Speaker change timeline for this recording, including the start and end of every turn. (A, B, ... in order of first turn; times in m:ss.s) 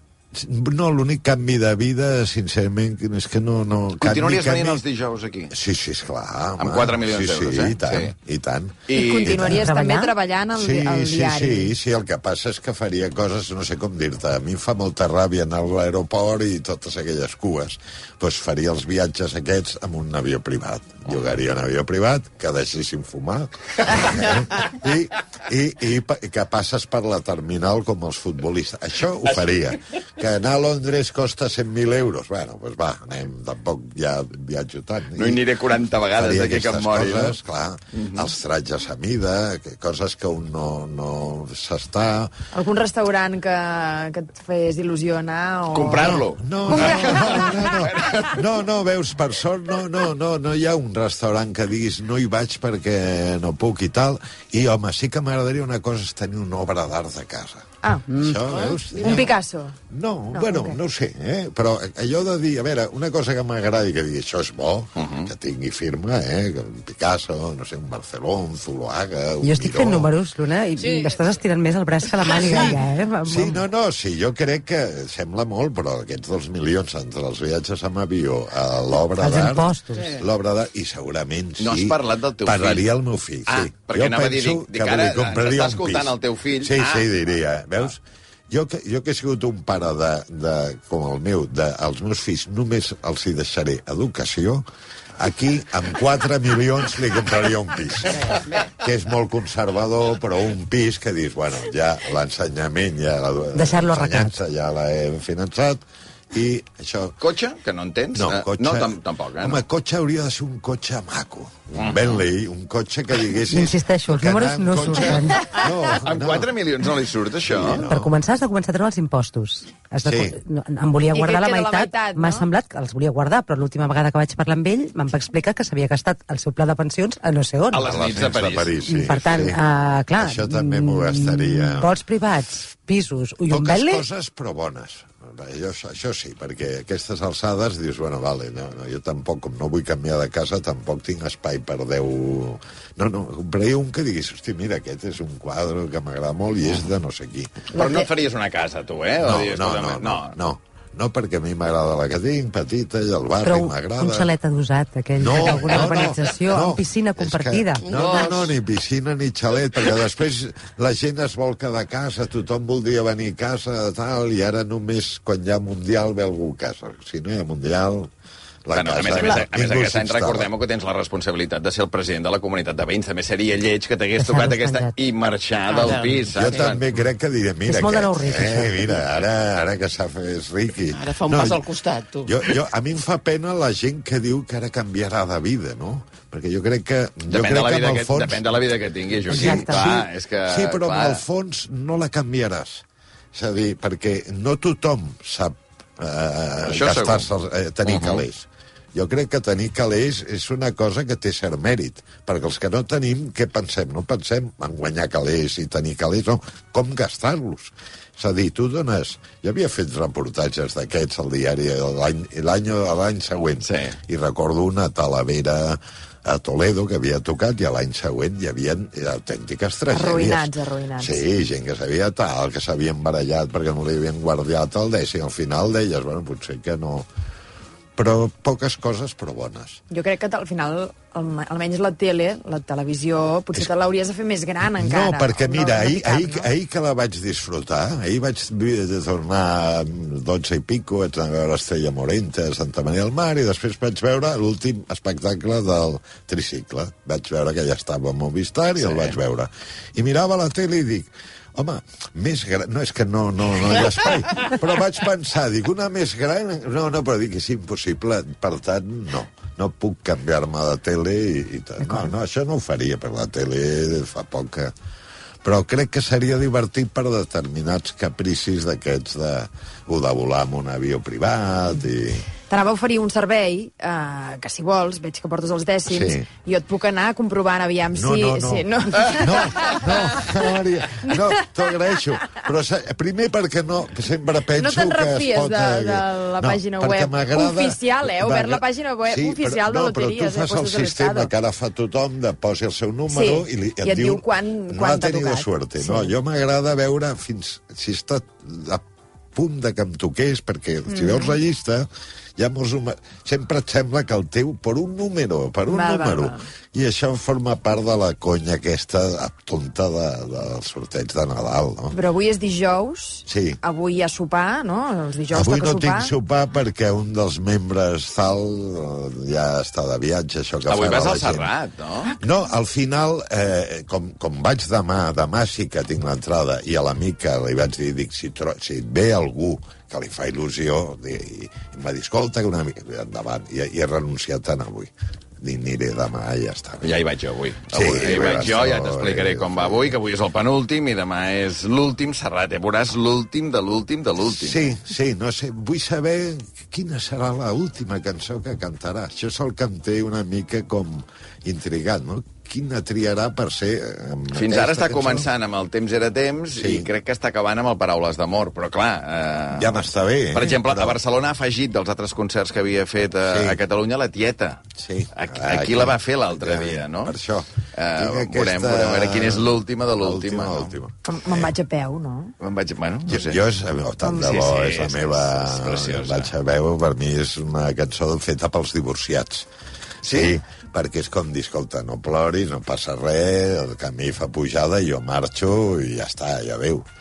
0:00.3-0:04.8 A
0:04.0-0:05.5 B
0:05.5-0:09.7 A
0:06.6-0:08.1 B
0:08.9-0:09.3 B
0:08.9-0:11.7 C
0:09.3-0:10.1 D
0:10.5-0:35.4 A
0:21.0-0:21.4 B
0:35.1-0:37.4 B
0:36.2-0:42.3 A
0:37.9-0:38.3 B
0:42.5-0:46.2 C
0:45.7-0:48.4 B
0:46.0-0:59.3 A
0:46.8-0:47.6 C
0:57.8-0:58.1 C
0:59.0-0:59.7 C
0:59.9-1:10.1 A
1:00.3-1:00.8 C
1:05.0-1:05.3 B
1:09.4-1:13.6 D
1:10.8-1:11.2 E
1:12.3-1:34.6 A
1:19.2-1:20.1 D
1:21.6-1:22.9 B
1:23.4-1:27.2 B
1:35.2-1:47.2 A
1:43.5-1:44.4 D
1:47.2-1:49.6 B
1:48.1-1:56.5 A
1:51.7-1:52.2 B
1:53.5-1:55.6 D
1:55.9-1:57.8 B
1:57.5-1:58.2 A
1:57.8-2:07.9 D
2:00.0-2:00.4 A
2:01.1-2:02.4 C
2:07.7-2:08.9 B
2:07.8-2:09.6 A
2:08.9-2:14.0 D
2:10.2-2:12.0 A
2:13.5-2:27.6 A
2:26.6-2:26.9 B
2:27.7-2:30.3 B
2:27.7-2:28.1 C
2:29.2-2:34.3 A
2:33.4-2:37.9 D
2:35.2-2:48.1 A
2:38.0-2:38.4 E
2:48.6-2:50.5 A
2:48.7-2:56.8 B
2:54.2-2:54.9 D
2:55.8-2:56.1 E
2:56.0-3:01.7 A
2:57.6-2:58.9 D
3:00.9-3:02.3 E
3:02.2-3:08.5 A
3:07.3-3:11.2 B
3:09.3-3:47.1 A
3:09.3-3:09.9 D
3:16.6-3:17.3 B
3:17.8-3:18.2 B
3:33.6-3:34.0 B
3:39.9-3:41.2 C
3:48.0-3:49.8 A
3:49.9-3:56.5 C
3:54.8-4:24.7 A
4:08.8-4:09.2 B
4:25.4-4:32.3 A
4:32.5-4:40.4 C
4:35.9-4:36.3 A
4:37.9-4:58.8 A
4:44.6-4:51.3 C
4:53.1-4:56.1 C
4:59.3-5:12.0 A
5:00.9-5:01.4 C
5:05.7-5:06.4 C
5:11.9-5:16.1 C
5:13.3-5:13.6 A
5:15.3-5:21.5 A
5:20.6-5:22.1 B
5:22.2-5:36.9 A
5:36.8-5:44.7 B
5:37.7-5:39.9 A
5:44.3-5:55.3 A
5:54.3-6:04.6 B
5:56.5-5:56.9 A
5:59.5-6:01.0 A
6:03.2-6:03.6 A
6:04.8-6:11.5 A
6:05.1-6:07.1 B
6:07.7-6:10.8 B
6:11.1-6:12.3 C
6:12.4-6:13.4 B
6:13.1-6:19.5 A
6:14.0-6:16.3 B
6:20.0-6:20.3 B
6:20.0-6:26.8 A